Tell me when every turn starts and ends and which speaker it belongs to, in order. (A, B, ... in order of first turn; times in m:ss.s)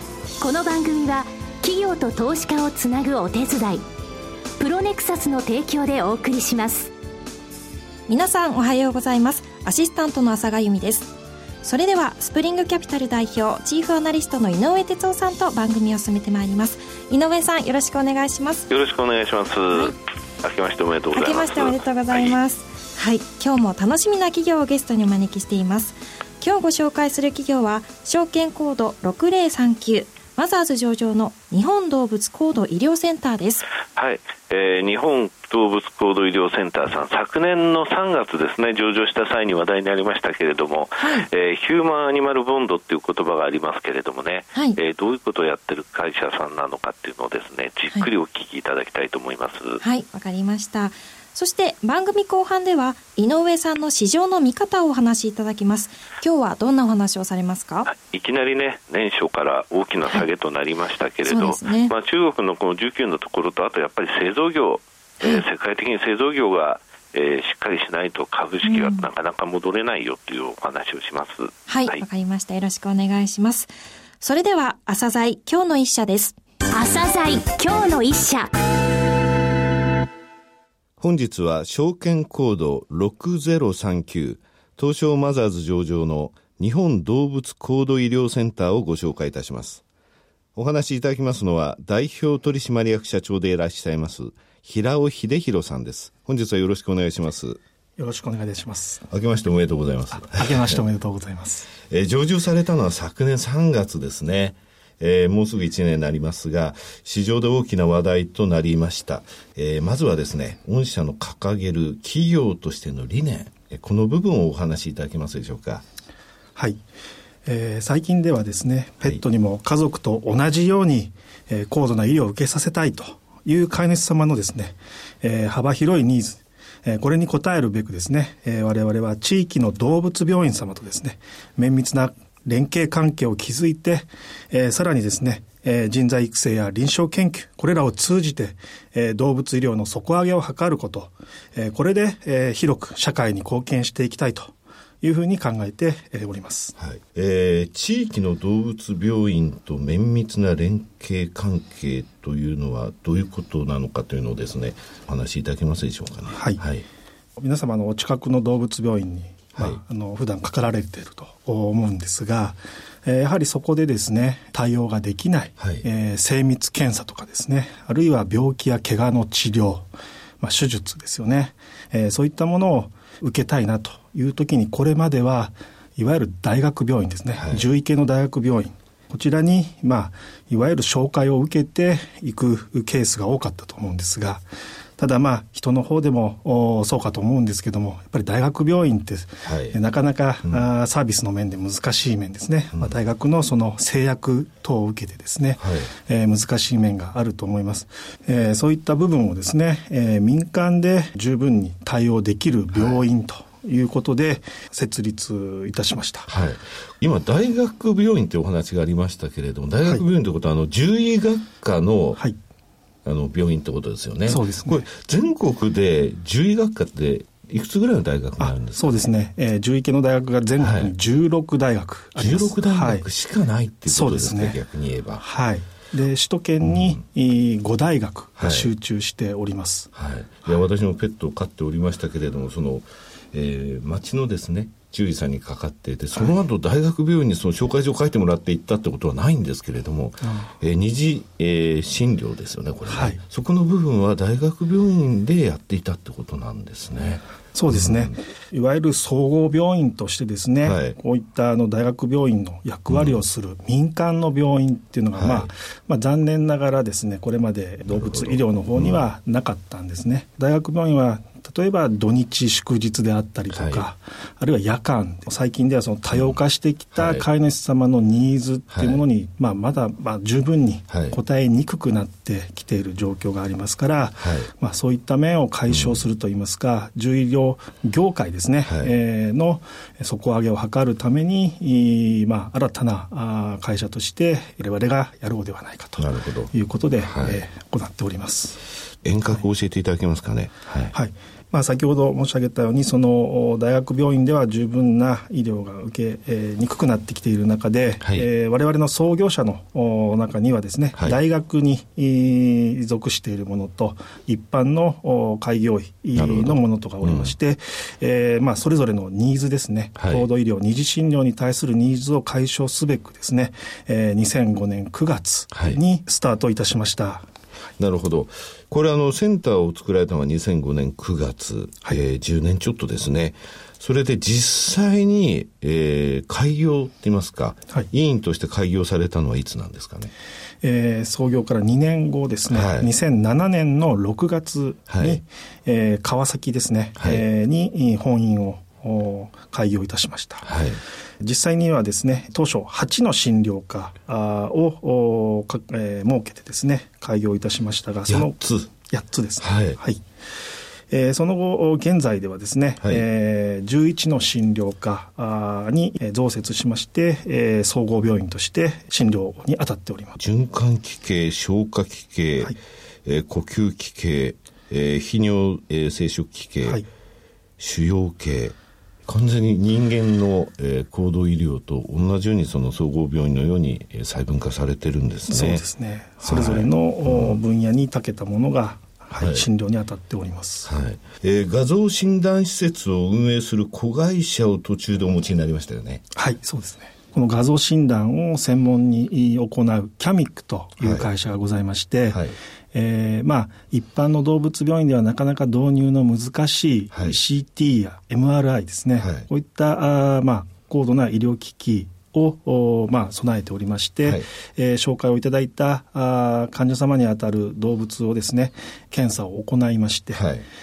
0:00.4-0:03.8 A
0:04.6-0:06.9 A
0:08.1-0:18.7 B
0:18.7-0:22.4 C
0:21.1-0:33.6 B
0:33.9-0:49.8 C
0:41.0-0:41.2 B
0:49.8-0:57.9 B
0:57.9-1:12.0 C
1:01.2-1:01.9 B
1:08.6-1:09.1 B
1:11.7-1:16.4 B
1:16.7-1:18.5 A
1:21.0-1:29.8 D
1:30.6-1:37.6 D
1:38.0-1:39.1 E
1:39.1-1:40.8 D
1:40.1-1:41.7 E
1:41.9-1:55.8 D
1:56.6-1:56.8 E
1:57.4-2:26.7 E
2:26.8-2:36.8 D
2:36.3-2:36.6 E
2:37.4-2:49.9 E
2:45.6-2:45.8 D
2:50.4-3:04.4 E
3:05.0-3:26.3 E
3:09.4-3:09.8 D
3:15.6-3:15.9 D
3:22.7-3:23.0 D
3:26.3-3:32.2 D
3:33.0-3:39.0 D
3:34.3-3:34.9 E
3:38.4-3:43.0 E
3:40.6-3:40.9 D
3:42.2-3:45.2 D
3:43.9-3:44.6 E
3:45.2-3:49.9 E
3:46.6-3:47.0 D
3:48.4-3:48.7 D
3:49.9-4:08.2 D
4:00.2-4:00.5 E
4:02.9-4:03.2 E
4:07.5-4:48.6 E
4:10.6-4:11.0 D
4:12.9-4:13.2 D
4:15.1-4:15.5 D
4:17.9-4:19.0 D
4:23.5-4:23.9 D
4:26.1-4:26.4 D
4:26.9-4:27.2 D
4:28.7-4:29.0 D
4:30.9-4:31.2 D
4:34.2-4:34.5 D
4:35.7-4:36.0 D
4:38.6-4:38.9 D
4:46.0-4:46.5 D
4:47.0-4:47.4 D
4:49.0-4:50.9 D
4:50.9-5:17.2 E
4:58.0-4:58.3 D
5:06.1-5:07.3 D
5:10.0-5:10.3 D
5:15.5-5:15.8 D
5:17.8-5:30.1 D
5:30.6-5:40.5 E
5:32.5-5:32.9 D
5:34.9-5:35.2 D
5:37.0-5:37.2 D
5:40.4-5:40.8 D
5:41.2-5:50.0 E
5:48.1-5:48.7 D
5:49.4-5:49.8 D
5:50.9-6:00.2 E
6:00.2-6:06.8 D
6:07.6-6:08.6 D
6:09.1-6:15.6 D
6:15.3-6:20.7 E
6:16.2-6:17.4 D
6:19.2-6:19.5 D
6:20.6-6:26.0 D
6:26.1-6:50.2 E
6:30.8-6:31.1 D
6:32.1-6:32.4 D
6:36.9-6:37.2 D
6:39.0-6:39.2 D
6:50.1-6:50.4 D